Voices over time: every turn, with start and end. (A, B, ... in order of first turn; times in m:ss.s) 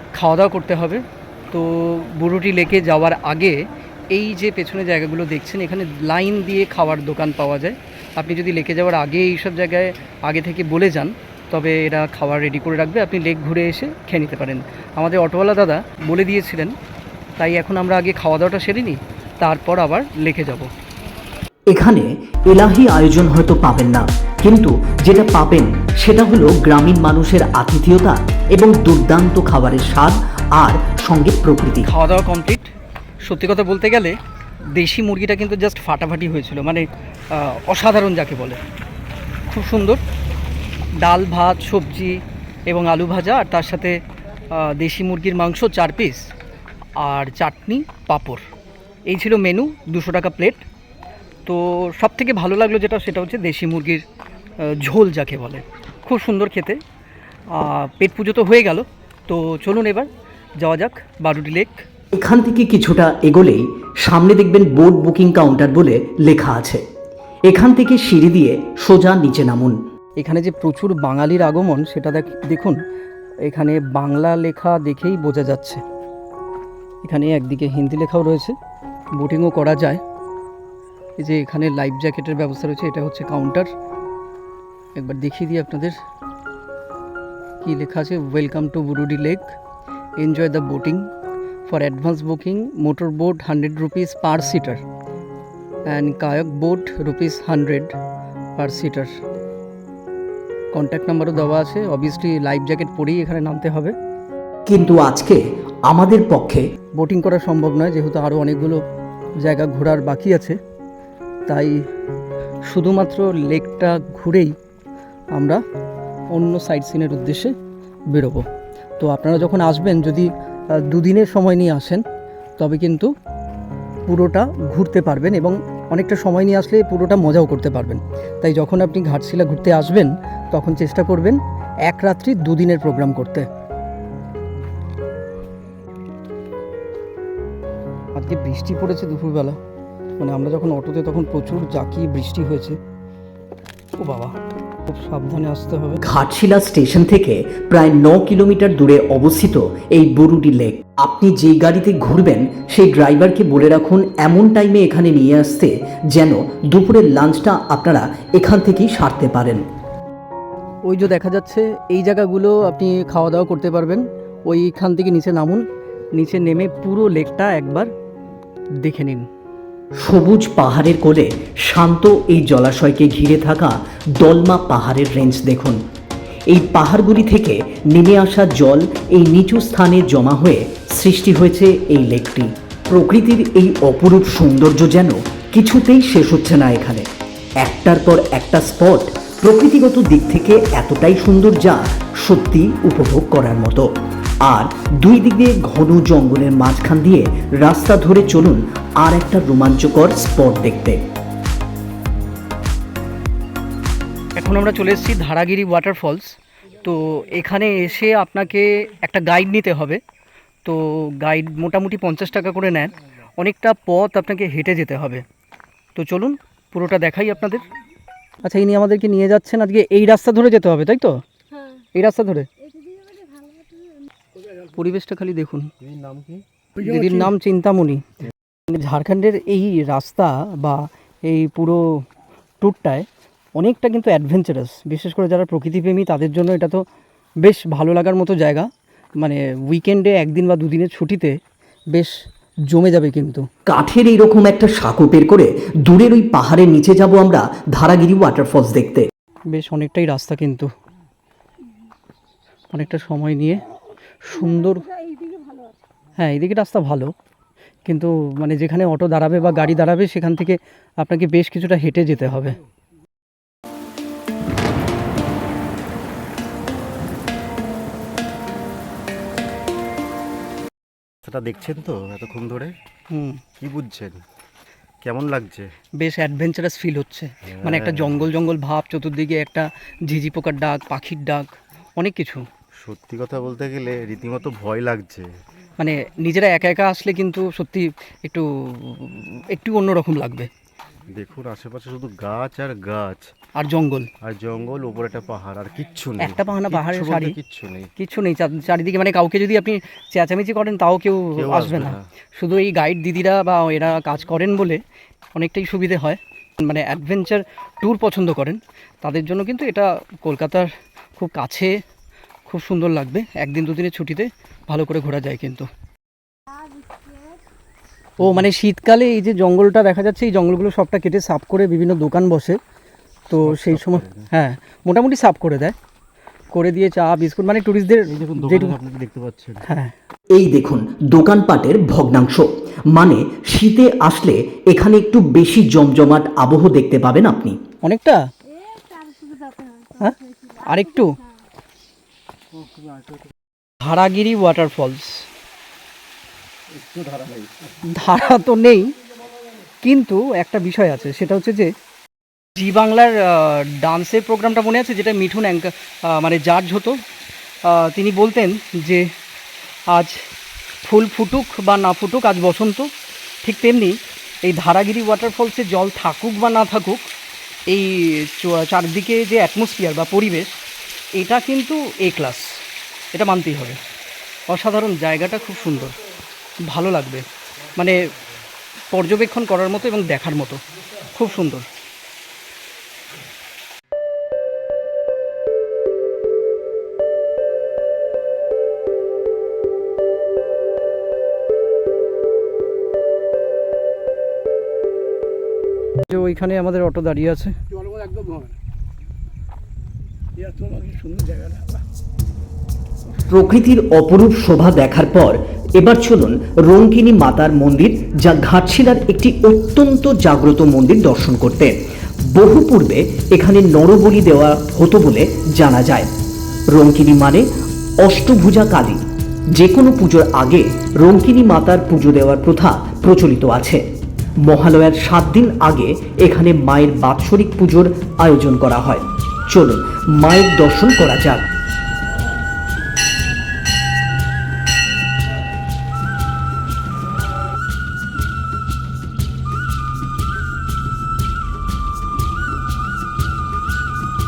0:00.1-0:16.7 A
0:17.4-0:20.7 A
0:21.7-0:31.9 B
0:31.8-0:32.7 A
0:33.2-0:34.2 A
0:34.7-0:38.6 A
0:39.5-0:40.0 A
0:41.0-0:44.0 A
0:44.5-0:46.3 A
0:47.0-0:48.4 A
0:49.1-0:50.7 A
0:51.5-0:54.1 A
0:54.6-0:56.8 A
0:57.5-1:00.1 A
1:00.6-1:01.8 A
1:02.1-1:06.8 B
1:07.5-1:09.8 B
1:10.2-1:12.8 A
1:13.4-1:15.8 A
1:17.0-1:18.6 A
1:19.2-1:20.0 A
1:21.2-1:23.7 A
1:25.0-1:26.0 A
1:27.6-1:29.6 A
1:30.2-1:31.0 A
1:31.7-1:34.8 A
1:35.9-1:37.9 A
1:38.6-1:39.1 A
1:40.7-1:43.9 A
1:44.7-1:46.6 B
1:46.9-1:48.8 A
1:49.4-1:50.6 A
1:51.5-1:51.8 A
1:52.7-1:54.5 A
1:55.4-1:55.6 A
1:56.3-1:57.6 A
1:58.1-1:58.5 A
1:59.0-2:02.0 A
2:02.6-2:03.1 A
2:04.1-2:13.5 A
2:18.2-2:19.6 A
2:20.2-2:22.8 A
2:24.0-2:26.0 A
2:26.0-2:39.6 B
2:40.9-2:47.9 A
2:48.8-2:49.3 A
2:50.0-2:55.8 B
2:56.5-3:07.0 B
3:07.6-3:13.9 B
3:14.4-3:21.0 B
3:24.4-3:30.0 A
3:30.6-3:35.2 A
3:36.0-3:37.7 A
3:38.4-3:43.4 A
3:44.6-3:45.7 A
3:45.8-3:46.4 C
3:46.8-3:48.0 A
3:48.7-3:52.0 A
3:52.6-3:56.8 A
3:57.4-3:58.7 A
3:59.2-4:01.4 A
4:02.7-4:03.5 A
4:03.7-4:09.1 B
4:09.5-4:10.7 A
4:12.7-4:13.6 A
4:14.2-4:14.9 A
4:16.2-4:17.1 A
4:17.9-4:22.6 A
4:31.2-4:32.7 C
4:33.1-4:33.4 A
4:33.6-4:34.2 C
4:35.0-4:35.7 C
4:36.0-4:42.5 A
4:37.5-4:38.3 C
4:42.8-4:45.3 C
4:45.8-4:50.5 A
4:51.2-4:53.3 C
4:53.6-4:54.1 A
4:54.2-4:57.9 C
4:56.2-4:57.4 A
4:58.0-5:04.8 A
5:01.4-5:02.0 C
5:05.4-5:11.8 A
5:12.5-5:15.7 A
5:18.2-5:22.6 A
5:23.3-5:25.8 A
5:23.3-5:24.3 C
5:26.5-5:28.8 A
5:28.1-5:29.7 C
5:29.7-5:29.9 A
5:30.3-5:37.6 B
5:37.8-5:38.2 A
5:38.9-5:41.1 A
5:43.8-5:45.3 A
5:46.7-5:47.7 C
5:47.8-5:48.9 A
5:49.8-5:51.7 A
5:52.6-5:57.0 A
5:57.6-5:59.1 A
5:59.9-6:00.2 A
6:00.8-6:02.9 A
6:03.4-6:07.1 A
6:07.7-6:10.6 A
6:11.2-6:12.6 A
6:13.1-6:13.8 A
6:14.5-6:16.0 A
6:16.7-6:18.0 A
6:18.9-6:21.7 A
6:36.1-6:38.4 A
6:40.6-6:41.3 A
6:43.3-6:51.8 B
6:52.3-6:56.1 B
6:56.7-6:57.5 B
6:58.0-6:59.0 B
6:59.6-7:03.8 B
7:04.4-7:11.4 B